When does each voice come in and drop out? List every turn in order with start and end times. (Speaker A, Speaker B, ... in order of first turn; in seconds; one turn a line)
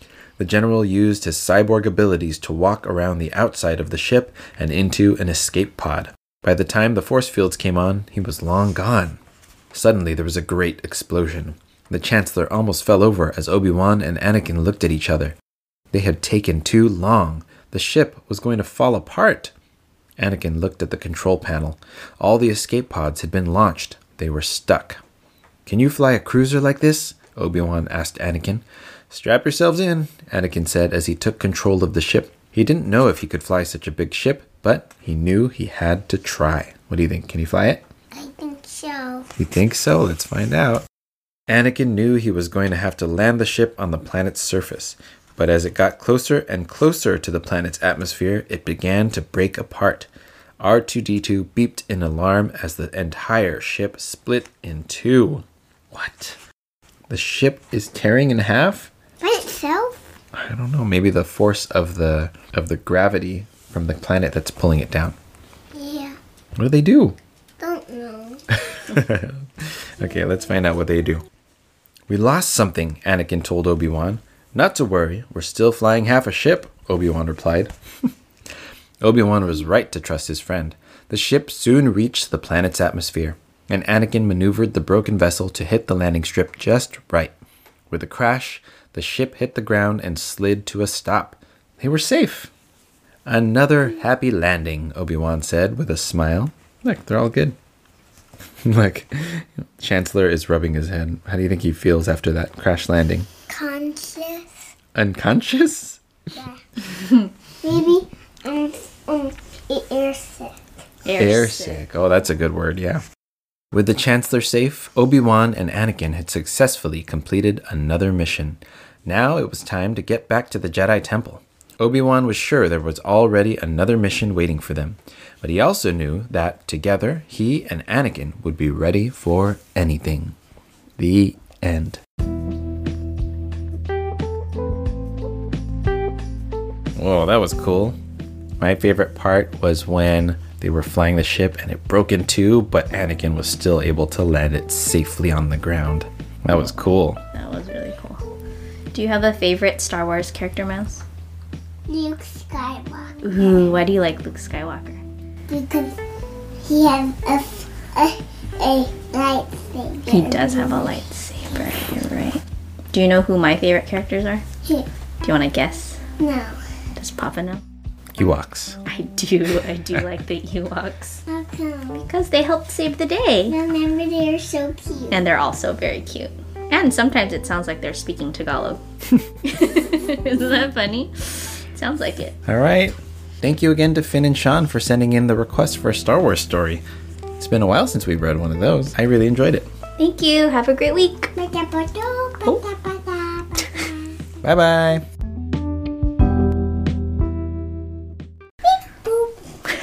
Speaker A: 0.4-9.2
Speaker A: 9.7-15.3
Speaker A: 15.9-19.5
Speaker A: 20.2-25.0
Speaker A: 25.7-37.8
Speaker B: 38.1-39.3
Speaker A: 39.4-40.9
Speaker A: 41.5-50.1
Speaker A: 50.6-56.4
Speaker A: 57.1-58.9
Speaker B: 59.2-60.0
Speaker A: 60.4-65.2
Speaker B: 65.8-66.2
Speaker A: 66.6-67.2
Speaker B: 67.6-68.4
Speaker A: 68.7-71.2
Speaker A: 72.1-77.7
Speaker A: 79.0-87.3
Speaker A: 87.9-92.5
Speaker A: 93.3-97.6
Speaker A: 98.6-103.3
Speaker B: 103.5-104.5
Speaker A: 105.0-106.0
Speaker B: 107.6-110.5
Speaker C: 111.0-111.8
Speaker A: 111.2-113.0
Speaker A: 113.7-130.3
Speaker A: 131.0-132.0
Speaker A: 137.0-138.0
Speaker A: 138.6-147.2
Speaker C: 147.3-148.2
Speaker C: 148.9-151.0
Speaker B: 151.9-153.3
Speaker C: 153.2-155.0
Speaker B: 155.5-156.0
Speaker B: 156.6-161.0
Speaker C: 160.1-164.4
Speaker C: 165.2-166.0
Speaker B: 166.2-166.6
Speaker C: 167.0-167.6
Speaker A: 168.2-168.8
Speaker C: 168.9-171.2
Speaker B: 171.3-172.0
Speaker C: 171.9-173.6
Speaker B: 173.5-175.2
Speaker C: 175.1-178.8
Speaker C: 179.4-182.3
Speaker A: 182.4-186.8
Speaker A: 187.4-189.7
Speaker C: 190.0-191.3
Speaker B: 191.4-194.1
Speaker A: 194.4-195.0
Speaker B: 198.6-199.6